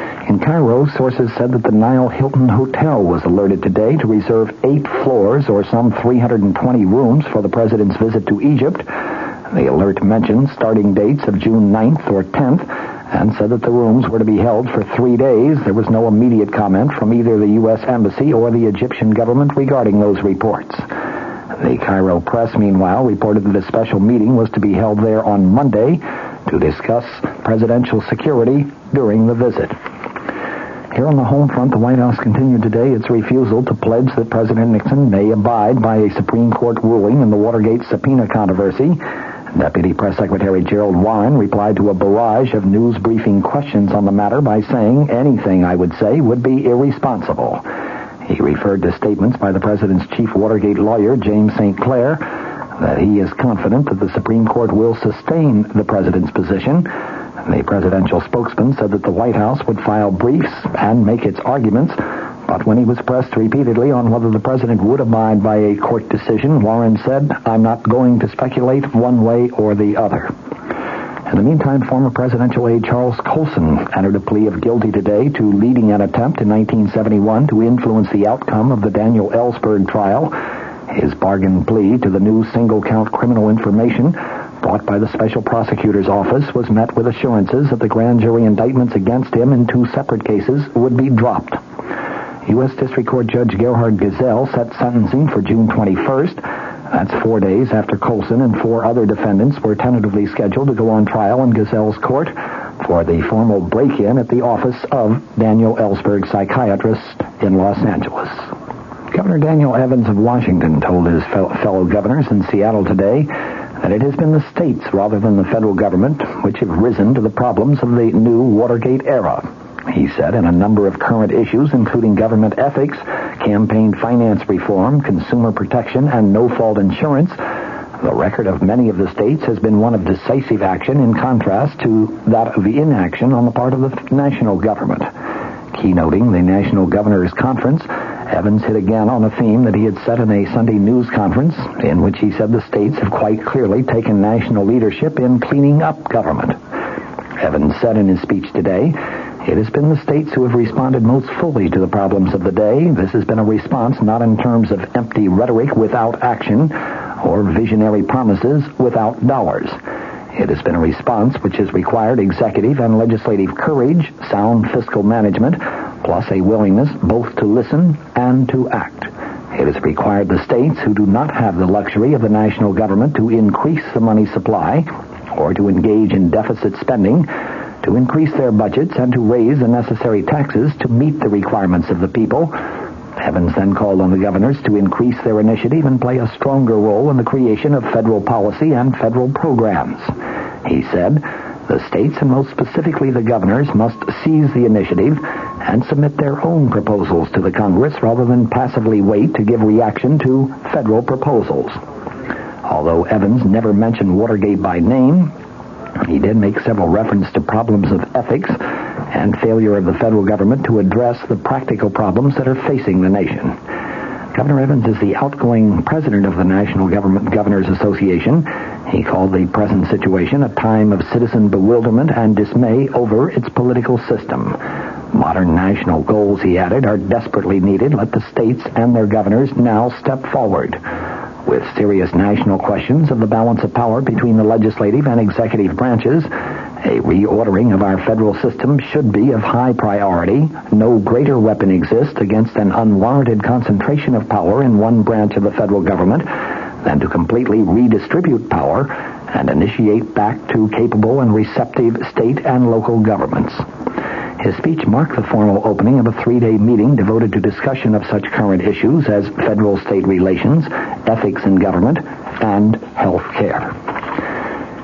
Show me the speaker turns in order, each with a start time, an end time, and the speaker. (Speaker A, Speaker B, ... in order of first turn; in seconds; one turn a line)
Speaker A: 0.2-20.9
Speaker A: 21.6-29.8
Speaker A: 30.9-47.7
Speaker A: 48.2-70.3
Speaker A: 71.3-80.4
Speaker A: 80.9-91.6
Speaker A: 92.5-108.5
Speaker A: 109.1-127.4
Speaker A: 128.0-135.1
Speaker A: 135.7-146.6
Speaker A: 147.4-159.8
Speaker A: 160.3-182.6
Speaker A: 183.2-190.1
Speaker A: 190.6-201.8
Speaker A: 202.6-205.3
Speaker A: 206.0-213.6
Speaker A: 214.3-230.8
Speaker A: 231.4-253.7
Speaker A: 254.4-263.8